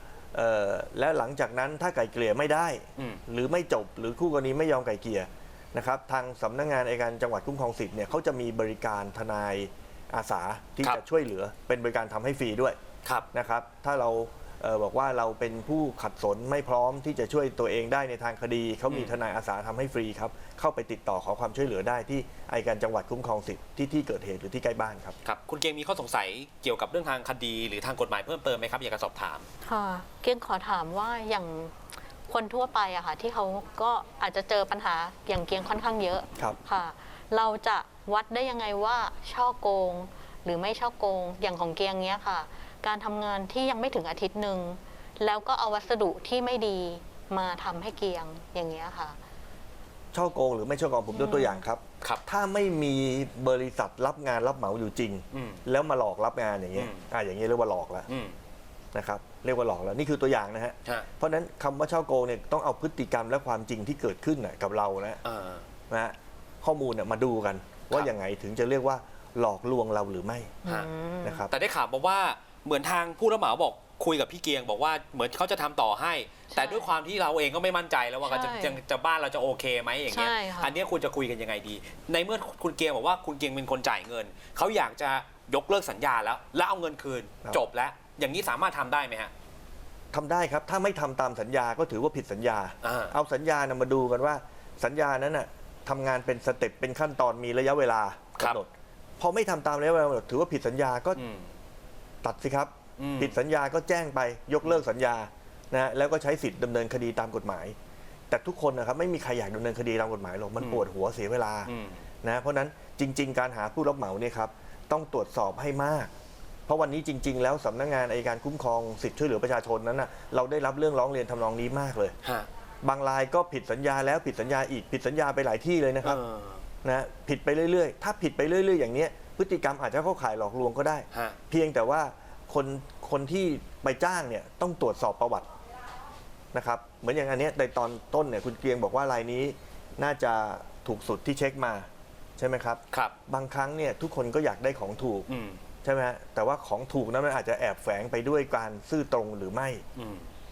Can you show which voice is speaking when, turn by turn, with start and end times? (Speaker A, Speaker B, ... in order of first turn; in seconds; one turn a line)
Speaker A: 0.3-12.8
Speaker A: 13.3-25.1
Speaker B: 18.9-19.2
Speaker B: 25.2-29.5
Speaker C: 29.6-31.8
Speaker C: 32.3-49.2
Speaker A: 50.1-58.1
Speaker C: 51.1-51.6
Speaker B: 55.3-55.6
Speaker B: 56.8-57.1
Speaker B: 58.1-58.4
Speaker A: 58.9-65.2
Speaker B: 65.2-65.7
Speaker A: 65.9-70.6
Speaker C: 70.6-71.5
Speaker A: 71.2-71.5
Speaker B: 71.5-89.3
Speaker C: 76.5-76.9
Speaker C: 78.2-78.8
Speaker C: 80.1-80.7
Speaker A: 90.1-101.2
Speaker B: 92.8-93.1
Speaker B: 101.2-101.5
Speaker A: 102.2-107.8
Speaker B: 103.0-103.4
Speaker A: 108.3-111.7
Speaker B: 110.6-110.9
Speaker B: 111.7-112.0
Speaker A: 112.2-116.1
Speaker A: 116.7-122.2
Speaker B: 122.2-122.5
Speaker A: 122.8-126.2
Speaker B: 126.0-126.6
Speaker A: 126.8-135.5
Speaker B: 131.1-131.4
Speaker A: 136.5-141.9
Speaker A: 142.4-145.3
Speaker B: 145.3-145.6
Speaker A: 145.8-149.8
Speaker B: 150.0-150.3